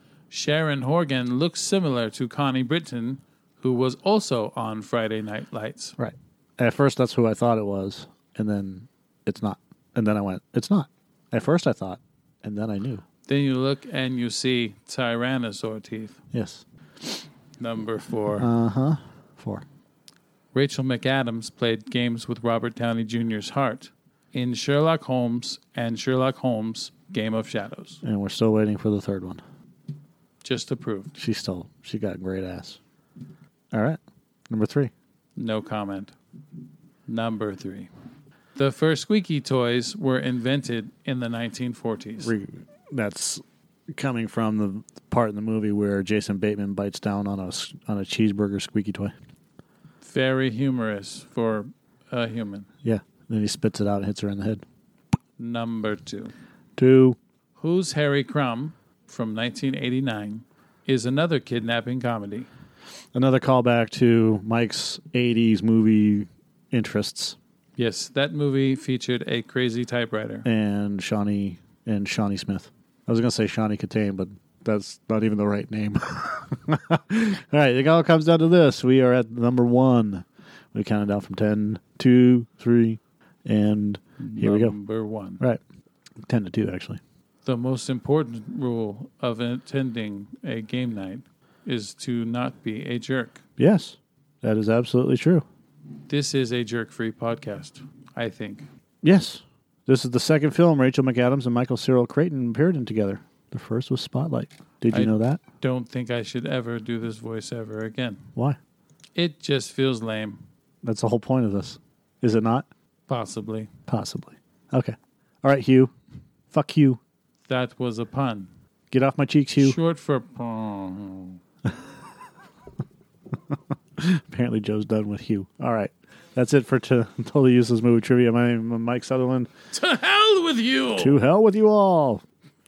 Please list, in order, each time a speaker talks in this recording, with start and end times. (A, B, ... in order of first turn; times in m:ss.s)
0:00.3-0:06.0 A
0:06.0-0:13.0 B
0:13.3-0:16.2 A
0:16.3-0:16.6 B
0:17.6-0:18.5 A
0:18.4-0:19.6 B
0:20.5-0:28.0 A
0:28.0-0:29.4 B
0:30.4-0:31.1 A
0:31.1-0:32.8 B
0:33.7-0:34.9 B
0:35.4-0:36.1 A
0:37.1-0:37.9 A
0:38.5-0:42.3 A
0:42.2-0:49.1 B
0:50.0-0:52.7 A
0:52.8-0:54.6 B
0:55.4-0:56.3 A
0:56.8-0:57.2 B
0:57.6-1:02.5 A
1:03.1-1:07.4 B
1:07.8-1:10.4 A
1:10.4-1:24.7 B
1:24.2-1:25.4 A
1:26.2-1:27.0 B
1:27.4-1:33.4 A
1:33.6-1:35.4 B
1:36.1-1:38.7 A
1:39.0-1:45.4 B
1:44.9-1:48.2 A
1:49.1-1:50.4 A
1:50.8-1:52.7 B
1:53.1-1:53.7 A
1:53.9-1:55.9 B
1:56.5-1:57.0 B
1:57.5-1:58.5 A
1:58.9-1:59.8 B
1:59.6-2:01.4 A
2:04.0-2:09.5 B
2:09.7-2:11.2 A
2:11.0-2:12.2 B